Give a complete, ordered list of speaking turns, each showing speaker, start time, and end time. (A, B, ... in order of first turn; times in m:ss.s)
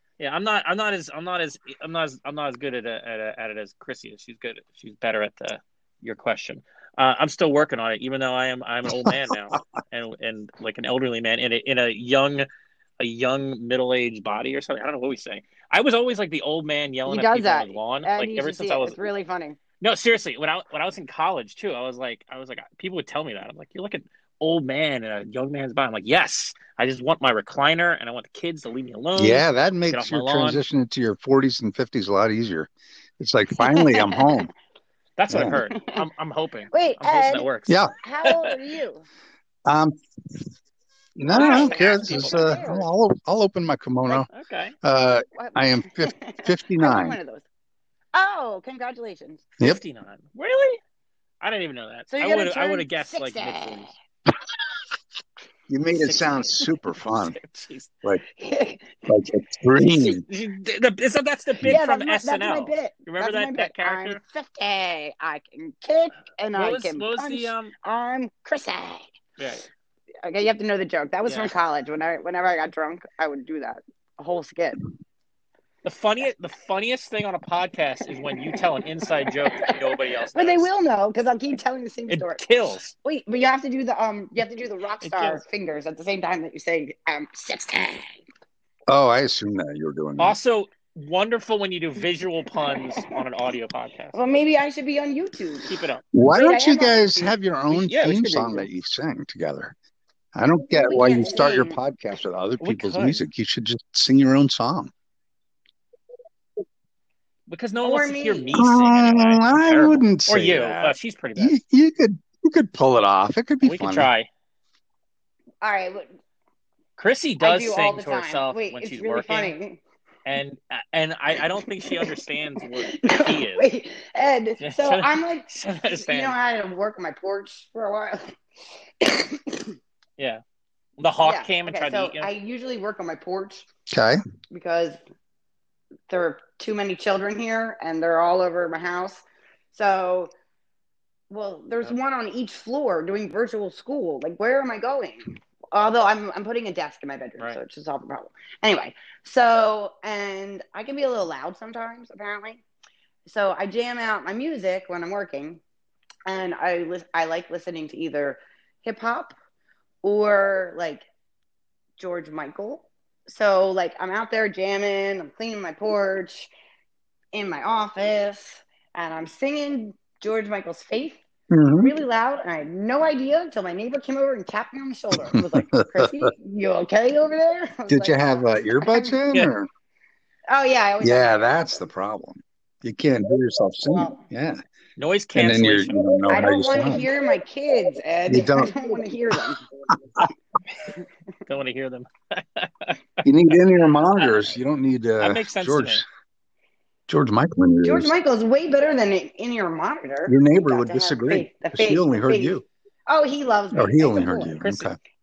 0:00.2-0:12.5 A
0:13.0-0:19.0 A
0:17.1-0:19.6 B
0:19.8-0:30.6 A
0:29.2-0:34.5 C
0:33.6-0:34.3 B
0:35.2-0:38.6 A
0:35.3-0:35.6 C
0:35.7-0:36.0 B
0:36.7-0:37.5 B
0:37.7-0:37.9 C
0:38.0-0:39.0 B
0:39.7-0:40.4 C
0:41.2-0:44.3 C
0:41.3-0:42.9 B
0:41.3-0:42.7 A
0:44.3-0:44.8 A
0:44.8-0:47.2 C
0:45.4-0:47.4 B
0:48.1-0:49.4 B
0:49.6-0:50.8 A
0:51.4-0:53.9 A
0:52.1-0:53.9 B
0:55.7-0:57.4 C
0:56.0-0:57.9 A
0:58.3-0:59.0 B
0:59.1-1:00.2 C
0:59.9-1:04.2 A
1:01.7-1:09.1 B
1:06.5-1:07.7 A
1:09.4-1:09.6 A
1:10.2-1:14.8 B
1:11.3-1:11.5 A
1:15.8-1:20.7 A
1:18.4-1:22.4 B
1:22.1-1:22.9 A
1:23.0-1:28.2 B
1:25.0-1:25.4 A
1:28.9-1:30.4 C
1:30.2-1:34.2 A
1:32.6-1:33.2 B
1:34.1-1:37.3 B
1:35.6-1:36.0 A
1:36.1-1:39.8 C
1:37.7-1:38.7 A
1:40.4-1:44.9 C
1:40.7-1:41.8 B
1:42.6-1:43.2 A
1:47.5-1:51.6 A
1:47.8-1:48.6 B
1:48.5-1:54.1 C
1:53.6-1:54.3 A
1:55.6-1:56.1 B
1:57.0-1:59.6 A
1:57.4-1:59.8 B
2:00.3-2:03.7 A
2:01.9-2:02.1 B
2:02.8-2:08.4 B
2:04.6-2:06.4 A
2:09.0-2:09.8 B
2:11.0-2:12.3 A
2:11.2-2:13.7 B
2:13.9-2:14.2 C
2:14.5-2:15.0 B
2:16.1-2:20.3 B
2:21.3-2:32.6 B
2:33.3-2:35.6 B
2:36.3-2:39.3 B
2:40.0-2:41.1 B
2:42.0-2:46.5 B
2:47.3-2:51.2 B
2:51.5-2:52.0 C
2:51.8-2:58.2 B
2:55.1-2:56.3 C
2:57.9-2:59.7 C
2:58.8-2:59.2 B
3:00.5-3:01.5 B
3:01.0-3:04.6 C
3:03.9-3:04.2 B
3:05.0-3:06.0 A
3:05.4-3:07.1 C
3:06.3-3:09.6 B
3:08.3-3:08.9 C
3:11.5-3:13.6 A
3:13.2-3:16.0 C
3:14.2-3:14.5 A
3:15.2-3:16.0 A
3:17.1-3:18.1 C
3:17.8-3:24.6 B
3:20.3-3:22.6 C
3:23.7-3:25.0 C
3:24.6-3:24.9 A